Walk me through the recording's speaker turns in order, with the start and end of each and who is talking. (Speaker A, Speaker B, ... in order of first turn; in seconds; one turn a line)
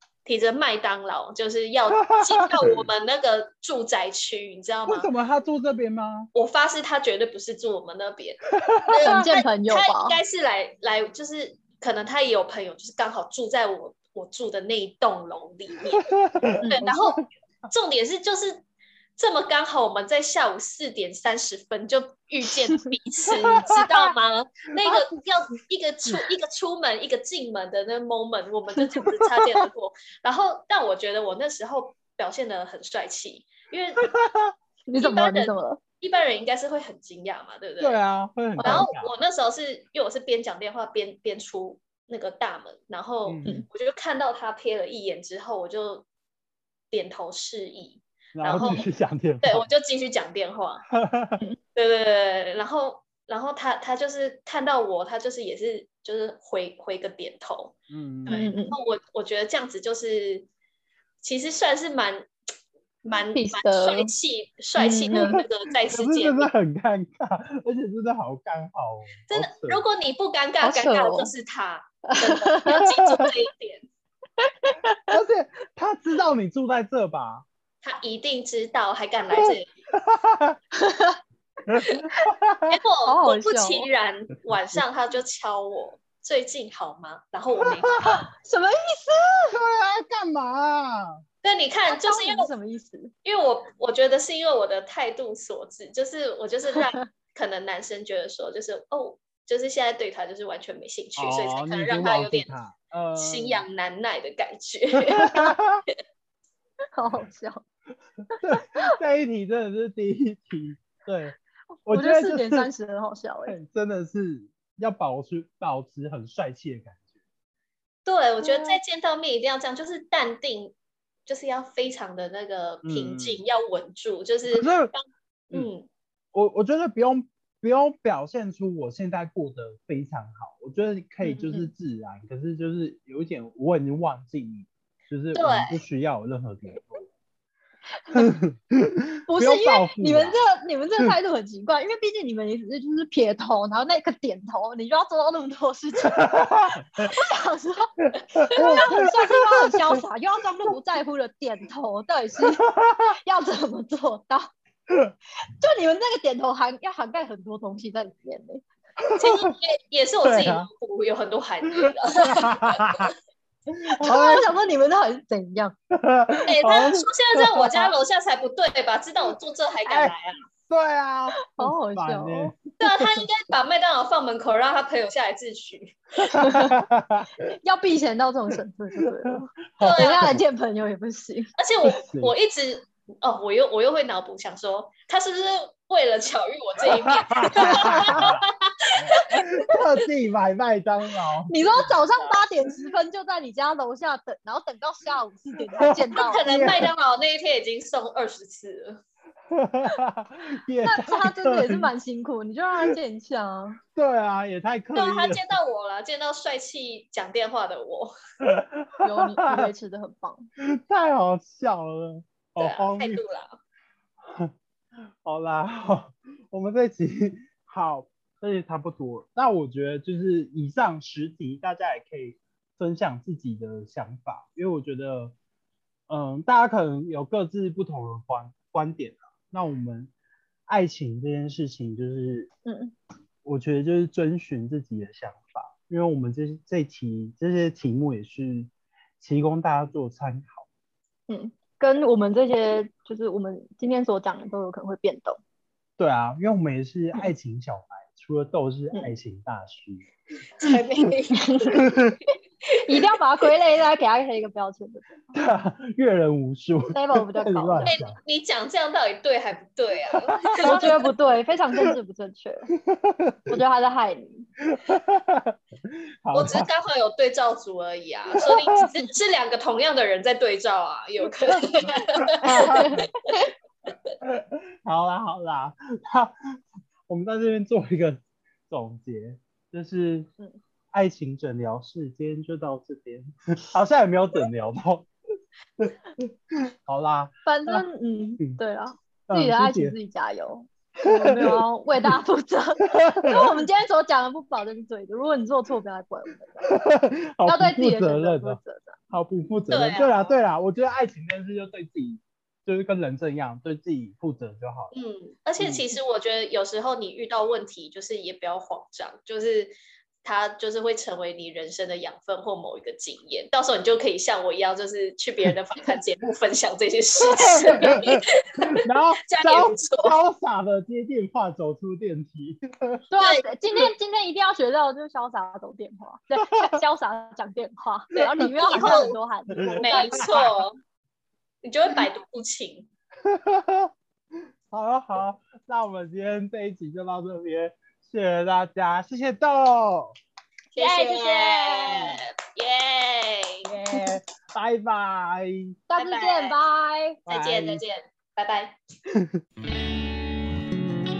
Speaker A: 0.2-5.1
Speaker B: 2.0-2.8
Speaker B: 4.9-6.3
Speaker A: 6.3-16.0
Speaker B: 8.7-9.2
Speaker C: 9.0-10.2
Speaker B: 16.0-17.2
Speaker C: 16.6-16.9
Speaker A: 16.6-18.6
Speaker A: 19.2-34.1
Speaker B: 23.3-24.1
Speaker B: 34.0-34.5
Speaker C: 34.9-35.8
Speaker A: 35.0-38.0
Speaker B: 37.8-39.1
Speaker C: 38.6-38.9
Speaker A: 38.6-46.1
Speaker B: 43.2-43.6
Speaker A: 46.9-48.8
Speaker B: 48.4-49.7
Speaker A: 49.4-50.8
Speaker B: 50.9-51.4
Speaker A: 51.7-60.5
Speaker B: 57.9-58.5
Speaker C: 58.3-58.8
Speaker A: 61.2-62.3
Speaker A: 63.0-66.5
Speaker C: 63.3-64.1
Speaker C: 64.8-65.4
Speaker B: 65.1-69.8
Speaker A: 69.3-73.8
Speaker C: 70.6-71.3
Speaker C: 72.1-73.3
Speaker C: 74.4-75.2
Speaker B: 75.1-77.5
Speaker A: 77.8-79.7
Speaker B: 79.4-80.6
Speaker C: 80.7-81.2
Speaker B: 81.7-82.8
Speaker A: 82.7-88.2
Speaker C: 83.0-83.9
Speaker B: 87.6-88.1
Speaker C: 88.2-89.6
Speaker B: 89.5-91.2
Speaker A: 91.4-92.5
Speaker C: 91.8-93.1
Speaker A: 93.2-102.5
Speaker B: 101.2-103.6
Speaker A: 103.1-105.5
Speaker B: 105.0-105.8
Speaker C: 106.9-107.6
Speaker B: 108.4-112.7
Speaker C: 108.5-108.9
Speaker C: 111.9-113.5
Speaker B: 113.5-117.0
Speaker A: 118.0-120.7
Speaker B: 118.5-118.8
Speaker A: 121.2-125.9
Speaker B: 122.8-123.4
Speaker B: 124.5-124.9
Speaker B: 126.3-137.1
Speaker A: 135.3-135.8
Speaker B: 138.1-140.4
Speaker C: 139.3-146.4
Speaker B: 146.1-147.1
Speaker C: 147.0-152.6
Speaker B: 148.0-149.9
Speaker B: 152.5-153.1
Speaker C: 153.2-154.5
Speaker C: 155.6-158.6
Speaker B: 159.0-159.5
Speaker A: 159.2-163.1
Speaker B: 160.2-160.7
Speaker B: 162.2-163.1
Speaker B: 163.7-164.5
Speaker C: 164.0-165.7
Speaker B: 165.9-167.9
Speaker A: 166.5-170.4
Speaker B: 169.8-172.6
Speaker C: 171.5-172.5
Speaker A: 172.8-176.0
Speaker C: 176.2-176.7
Speaker B: 176.2-177.3
Speaker C: 177.6-181.5
Speaker B: 179.2-180.4
Speaker A: 179.8-180.4
Speaker A: 181.6-189.4
Speaker B: 181.8-182.3
Speaker B: 187.0-188.4
Speaker C: 187.6-188.2
Speaker B: 189.0-192.3
Speaker C: 191.5-196.7
Speaker B: 195.8-196.9
Speaker A: 196.1-199.0
Speaker B: 199.5-201.9
Speaker C: 200.8-203.8
Speaker B: 203.9-205.5
Speaker A: 204.9-208.1
Speaker B: 208.4-209.7
Speaker C: 209.0-210.5
Speaker B: 210.6-213.2
Speaker A: 212.6-213.6
Speaker B: 214.2-214.5
Speaker B: 215.2-225.3
Speaker B: 226.1-230.1
Speaker B: 230.7-232.5
Speaker C: 232.6-232.9
Speaker B: 233.4-240.7
Speaker C: 241.3-245.4
Speaker B: 246.0-250.1
Speaker A: 250.6-252.0
Speaker C: 251.4-251.8
Speaker B: 251.7-252.2
Speaker C: 252.8-255.1
Speaker B: 255.3-258.2
Speaker C: 256.9-257.9
Speaker A: 257.8-261.0
Speaker B: 260.5-260.9
Speaker C: 260.6-262.7
Speaker B: 262.9-263.5
Speaker C: 263.5-264.5
Speaker B: 264.7-265.6
Speaker B: 266.2-266.7
Speaker A: 266.3-272.7
Speaker B: 268.4-268.9
Speaker B: 272.3-273.1
Speaker C: 272.4-273.4
Speaker B: 274.2-276.3
Speaker B: 277.1-280.3
Speaker B: 280.9-285.1
Speaker B: 285.8-287.8
Speaker C: 287.4-296.6
Speaker B: 289.3-289.9
Speaker B: 291.1-292.1
Speaker B: 292.8-293.6
Speaker B: 296.6-298.6
Speaker C: 297.4-299.0
Speaker B: 299.1-304.9
Speaker A: 299.7-300.3
Speaker A: 304.9-318.7
Speaker B: 305.6-305.9
Speaker B: 317.3-323.0
Speaker A: 319.2-320.1
Speaker C: 323.1-330.4
Speaker A: 323.2-323.4
Speaker A: 328.2-329.1
Speaker B: 329.5-330.5
Speaker A: 329.8-330.8
Speaker A: 331.6-332.9
Speaker B: 333.2-333.9
Speaker B: 334.7-340.1
Speaker A: 340.7-343.6
Speaker C: 340.8-342.1
Speaker B: 343.6-345.7
Speaker C: 345.9-347.2
Speaker A: 345.9-346.6
Speaker A: 347.2-348.8
Speaker B: 347.3-347.8